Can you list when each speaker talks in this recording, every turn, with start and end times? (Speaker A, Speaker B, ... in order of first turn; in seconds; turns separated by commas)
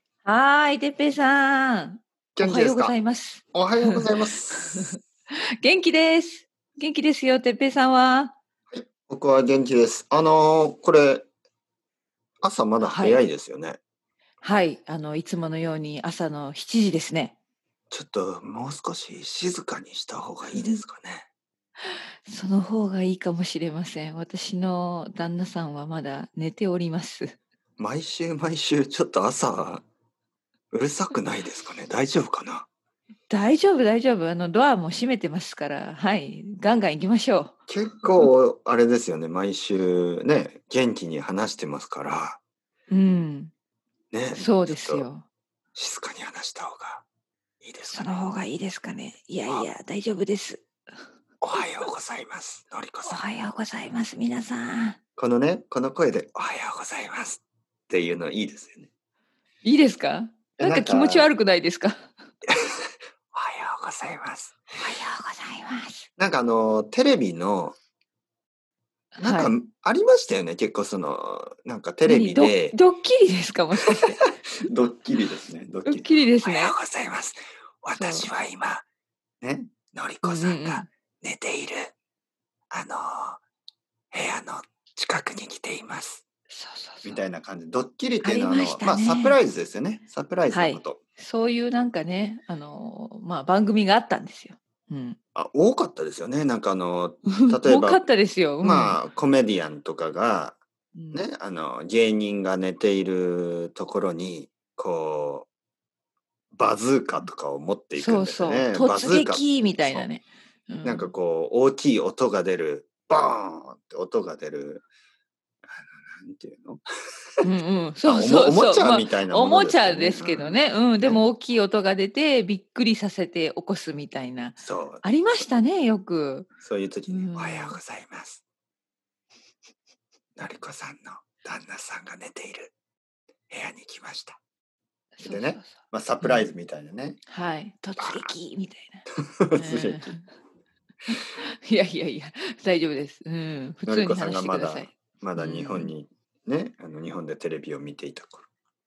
Speaker A: 0.2-5.0, Speaker B: 2.4-2.9, Speaker B: 3.5-5.0, Speaker A: 5.6-8.3, Speaker B: 8.7-11.3, Speaker B: 12.4-13.8, Speaker A: 12.8-13.2, Speaker A: 14.4-17.3, Speaker B: 17.9-21.3, Speaker A: 20.5-20.8, Speaker A: 22.3-27.4, Speaker B: 27.8-29.8, Speaker B: 30.7-32.7, Speaker A: 33.3-37.5, Speaker B: 37.7-42.4, Speaker A: 42.9-43.5, Speaker B: 44.1-45.1, Speaker A: 44.3-45.2, Speaker B: 45.8-47.0, Speaker B: 47.6-48.3, Speaker A: 47.9-50.6, Speaker B: 51.4-53.2, Speaker A: 53.0-55.0, Speaker B: 55.2-58.9, Speaker A: 59.6-62.1, Speaker B: 60.6-61.3, Speaker B: 62.5-64.6, Speaker A: 64.8-66.1, Speaker B: 66.2-67.8, Speaker A: 69.1-69.5, Speaker B: 69.2-72.8, Speaker A: 72.0-74.2, Speaker B: 74.2-78.8, Speaker A: 75.9-76.8, Speaker A: 77.9-78.3, Speaker B: 79.4-81.9, Speaker A: 80.2-80.9, Speaker B: 82.7-83.4, Speaker B: 84.1-86.2, Speaker A: 86.5-87.2, Speaker B: 87.0-91.0, Speaker A: 88.2-89.4, Speaker A: 90.5-95.2, Speaker B: 95.3-98.0, Speaker A: 97.4-99.0, Speaker B: 98.6-100.6, Speaker A: 101.0-101.2, Speaker B: 101.1-105.5, Speaker B: 106.6-110.1, Speaker A: 108.0-111.1, Speaker B: 110.8-114.8, Speaker B: 115.7-116.8, Speaker A: 117.4-126.5, Speaker B: 118.0-121.2, Speaker B: 124.6-125.0, Speaker B: 126.6-128.4, Speaker A: 127.1-127.8, Speaker B: 130.4-132.7, Speaker B: 133.5-134.4, Speaker A: 135.2-136.5, Speaker B: 135.2-137.2, Speaker A: 137.3-139.0, Speaker B: 138.0-138.3, Speaker B: 139.4-140.1, Speaker A: 139.5-140.3, Speaker A: 141.1-145.9, Speaker B: 143.8-148.4